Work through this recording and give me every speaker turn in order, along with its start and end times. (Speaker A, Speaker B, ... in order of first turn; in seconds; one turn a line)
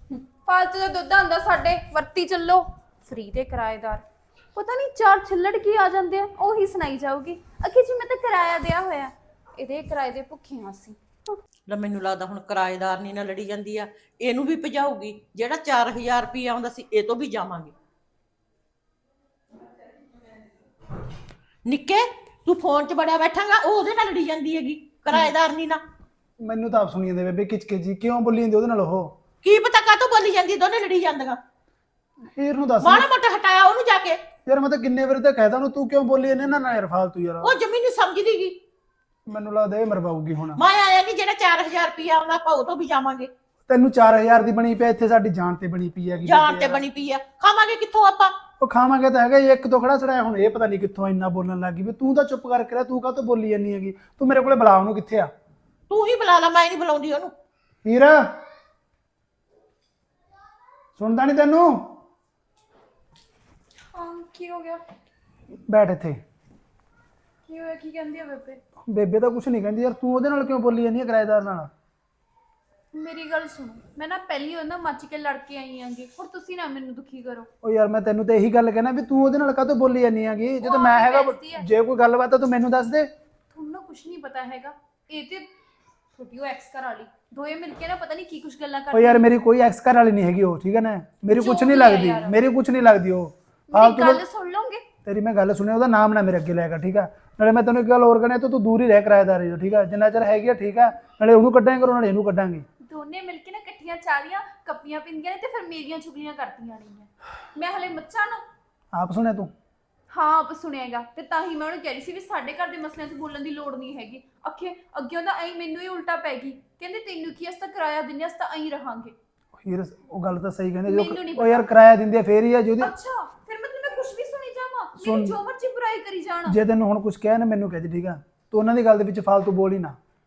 Speaker A: 0.1-11.0
Speaker B: 11.7-17.7
Speaker B: 21.6-25.8
Speaker C: 26.4-29.2
Speaker B: 29.4-31.4
Speaker C: 32.3-33.0
Speaker B: 32.8-34.2
Speaker C: 34.5-37.5
Speaker B: 37.4-38.6
Speaker C: 39.3-40.6
Speaker B: 40.5-43.3
Speaker C: 43.7-46.8
Speaker B: 46.2-48.4
Speaker C: 48.6-55.3
Speaker B: 55.9-57.3
Speaker C: 57.8-58.4
Speaker C: 61.0-62.0
Speaker A: 63.9-64.8
Speaker C: 65.5-66.2
Speaker A: 67.5-68.6
Speaker C: 68.9-71.7
Speaker A: 72.9-77.5
Speaker C: 77.6-83.1
Speaker A: 80.6-81.7
Speaker A: 83.5-85.5
Speaker A: 86.1-89.3
Speaker C: 88.9-94.2
Speaker A: 91.3-92.4
Speaker A: 93.7-94.8
Speaker C: 95.0-102.7
Speaker A: 102.8-108.4
Speaker C: 108.9-109.5
Speaker A: 110.1-119.1
Speaker C: 119.6-122.9
Speaker A: 120.8-121.7
Speaker A: 122.8-126.6
Speaker C: 125.0-125.4
Speaker C: 126.5-130.0